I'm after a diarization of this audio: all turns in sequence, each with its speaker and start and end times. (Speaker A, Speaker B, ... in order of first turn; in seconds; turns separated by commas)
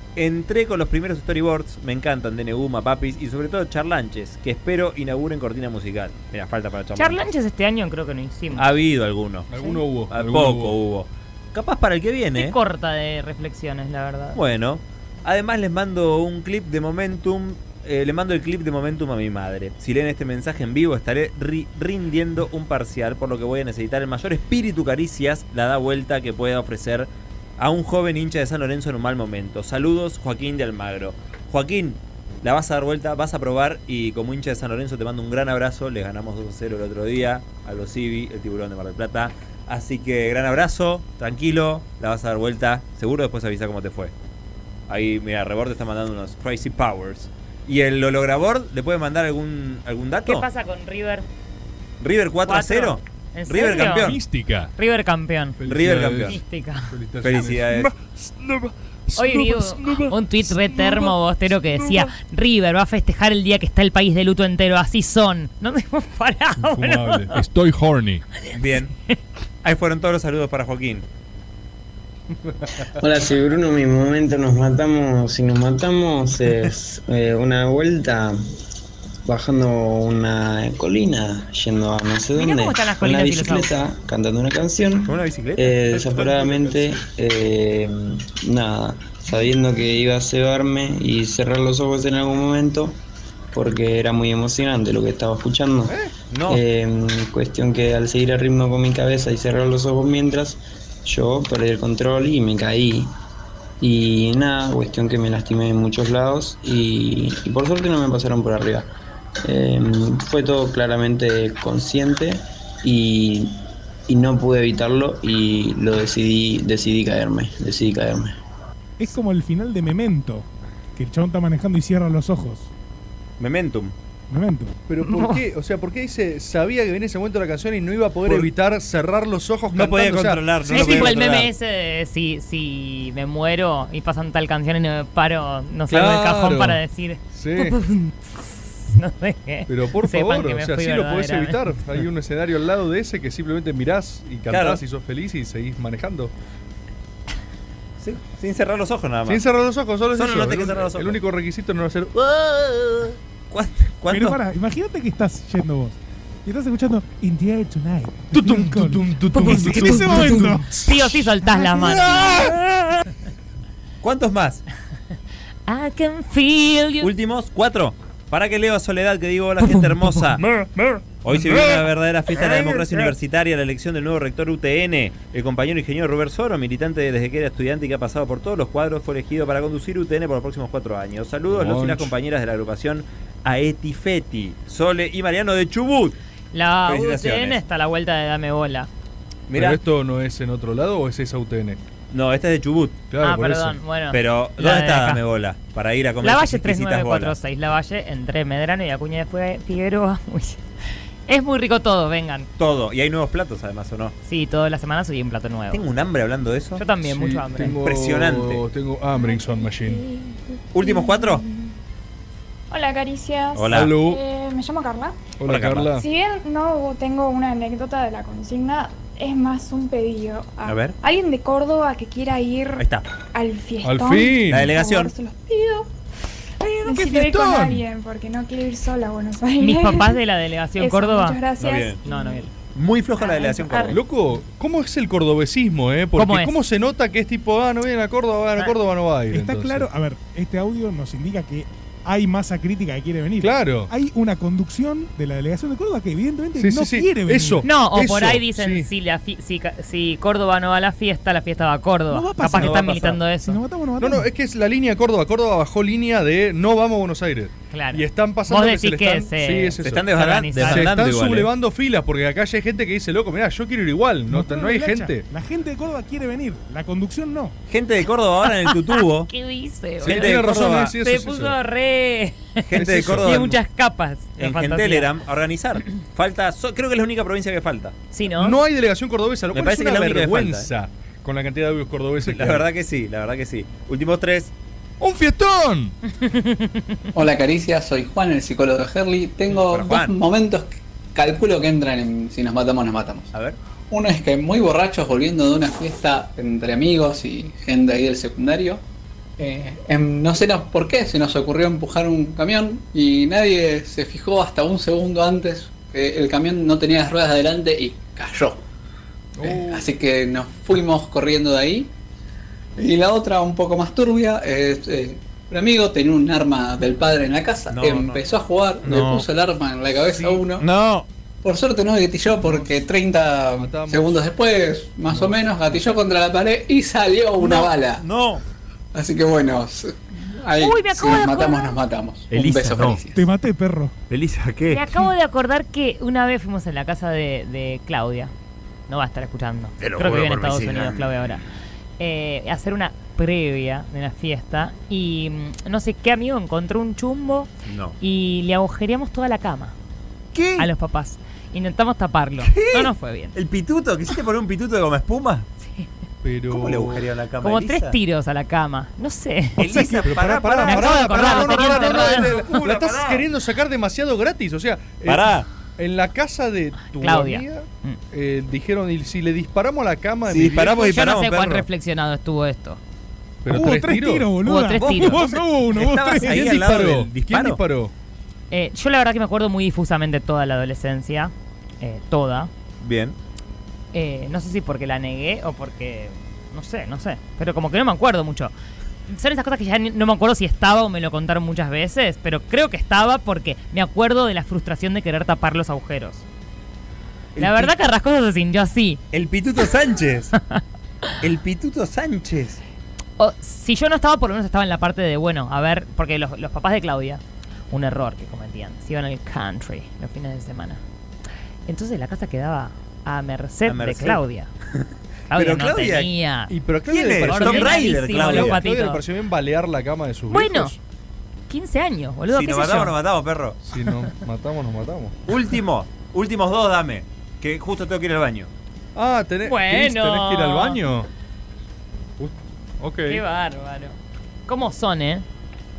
Speaker A: 0.2-7.2, Speaker B: 7.0-8.7, Speaker A: 8.6-9.5, Speaker C: 9.5-10.8, Speaker A: 10.1-12.6, Speaker B: 12.4-14.4, Speaker A: 14.3-44.1, Speaker A: 44.9-50.5, Speaker B: 50.3-51.2, Speaker A: 52.0-54.2, Speaker B: 52.4-54.2, Speaker C: 54.0-54.7, Speaker B: 54.8-55.6, Speaker C: 55.6-62.1, Speaker A: 55.7-56.4, Speaker B: 56.3-56.9, Speaker A: 57.2-57.9, Speaker B: 59.2-67.4, Speaker C: 66.6-68.2, Speaker A: 68.5-68.9, Speaker A: 69.6-71.0, Speaker D: 73.0-78.4, Speaker D: 79.3-93.0, Speaker B: 82.3-83.8, Speaker A: 85.0-86.8, Speaker C: 85.9-86.8, Speaker D: 93.5-96.0, Speaker A: 96.3-96.6, Speaker D: 96.5-103.1, Speaker D: 103.8-108.9, Speaker D: 109.4-113.5, Speaker D: 114.1-118.3, Speaker E: 119.0-122.7, Speaker A: 123.4-123.9, Speaker E: 124.3-124.7, Speaker C: 124.9-131.2, Speaker B: 125.0-125.4, Speaker A: 129.7-131.5, Speaker B: 130.7-141.6, Speaker C: 135.9-136.8, Speaker C: 137.3-137.8, Speaker C: 139.7-146.3, Speaker A: 144.5-144.8, Speaker A: 148.0-149.4, Speaker C: 149.3-152.1, Speaker A: 150.2-151.2, Speaker A: 152.2-154.4, Speaker E: 154.1-160.7, Speaker C: 158.3-161.0, Speaker B: 159.3-162.4, Speaker C: 161.7-162.6, Speaker A: 164.0-164.6, Speaker B: 165.7-167.1, Speaker A: 167.0-170.4, Speaker C: 170.6-173.1, Speaker A: 171.2-186.2, Speaker C: 181.5-182.1, Speaker B: 186.5-188.9, Speaker A: 186.9-187.6, Speaker A: 189.5-189.8, Speaker C: 189.5-191.8, Speaker A: 192.1-193.0, Speaker C: 193.1-193.8, Speaker B: 193.2-195.2, Speaker A: 194.1-197.3, Speaker B: 196.2-200.6, Speaker B: 201.3-202.5, Speaker A: 202.6-204.1, Speaker B: 204.2-205.8, Speaker A: 205.7-206.8, Speaker B: 206.8-207.8, Speaker C: 207.0-210.0, Speaker A: 207.8-208.6, Speaker A: 210.7-211.4, Speaker F: 210.8-211.3, Speaker F: 212.7-215.2, Speaker A: 213.5-214.0, Speaker C: 213.7-214.2, Speaker C: 215.4-216.1, Speaker A: 215.4-216.0, Speaker F: 216.0-222.8, Speaker A: 220.6-221.0, Speaker A: 222.8-223.1, Speaker F: 223.3-225.8, Speaker C: 223.8-224.8, Speaker A: 224.5-225.1, Speaker F: 226.6-230.2, Speaker C: 226.8-227.8, Speaker B: 229.6-231.4, Speaker F: 230.8-232.4, Speaker A: 231.6-232.0, Speaker B: 232.1-232.5, Speaker A: 232.7-234.0, Speaker C: 233.9-239.9, Speaker B: 236.2-236.6, Speaker E: 239.3-247.7, Speaker C: 243.4-243.9, Speaker C: 246.6-248.9, Speaker B: 247.6-253.6, Speaker E: 252.1-254.3, Speaker C: 252.6-253.1, Speaker C: 254.0-265.2, Speaker B: 257.7-260.9, Speaker A: 259.8-261.5, Speaker E: 264.3-267.6, Speaker A: 267.7-269.3, Speaker B: 268.7-275.1, Speaker A: 270.0-270.9, Speaker C: 270.0-271.6, Speaker A: 272.7-273.5, Speaker C: 272.8-273.6, Speaker A: 274.4-277.9, Speaker B: 278.1-278.6, Speaker C: 278.4-282.6, Speaker A: 279.5-280.7, Speaker A: 282.2-284.5, Speaker C: 285.0-285.9, Speaker B: 286.2-287.0, Speaker G: 287.1-293.3, Speaker A: 289.5-290.2, Speaker G: 293.9-298.8, Speaker G: 299.4-308.6, Speaker C: 309.4-309.9, Speaker G: 309.4-311.9, Speaker G: 312.8-320.6, Speaker A: 317.7-318.2, Speaker A: 318.8-319.3, Speaker A: 320.1-321.1, Speaker G: 321.4-328.0, Speaker C: 322.4-322.8, Speaker C: 323.6-324.2, Speaker C: 325.1-326.0, Speaker A: 327.4-328.4, Speaker G: 328.9-333.2, Speaker B: 330.6-331.8, Speaker A: 332.3-333.0, Speaker E: 333.1-333.9, Speaker A: 334.1-334.9, Speaker B: 334.7-338.3, Speaker B: 338.9-341.4, Speaker A: 339.8-341.4, Speaker B: 342.0-349.7, Speaker A: 347.6-348.0, Speaker A: 350.3-350.7, Speaker B: 350.6-353.4, Speaker A: 352.4-355.5, Speaker C: 356.2-357.1, Speaker A: 356.5-358.0, Speaker B: 357.4-360.0, Speaker A: 359.6-363.2, Speaker C: 359.8-370.9, Speaker B: 360.6-362.3, Speaker A: 365.1-365.5, Speaker B: 367.0-368.0, Speaker A: 370.3-371.7, Speaker B: 370.8-372.8, Speaker C: 373.4-374.3, Speaker E: 373.5-376.5, Speaker B: 374.4-375.2, Speaker A: 374.8-377.6, Speaker C: 376.2-377.9, Speaker B: 378.5-382.5, Speaker A: 382.8-383.2, Speaker B: 383.9-388.5, Speaker B: 389.1-396.2, Speaker A: 397.4-397.7, Speaker B: 397.4-399.0, Speaker A: 399.1-400.3, Speaker A: 401.2-402.6, Speaker B: 403.2-410.8, Speaker B: 411.7-414.5, Speaker A: 413.7-414.2, Speaker A: 414.7-416.1, Speaker B: 415.3-416.5, Speaker C: 416.5-420.8, Speaker A: 416.9-418.6, Speaker B: 417.2-419.0, Speaker B: 420.3-420.7, Speaker B: 421.5-422.9, Speaker A: 422.3-423.6, Speaker C: 423.6-425.1, Speaker A: 425.3-428.5, Speaker C: 428.9-431.1, Speaker B: 429.4-430.8, Speaker C: 432.2-433.2, Speaker B: 433.1-435.2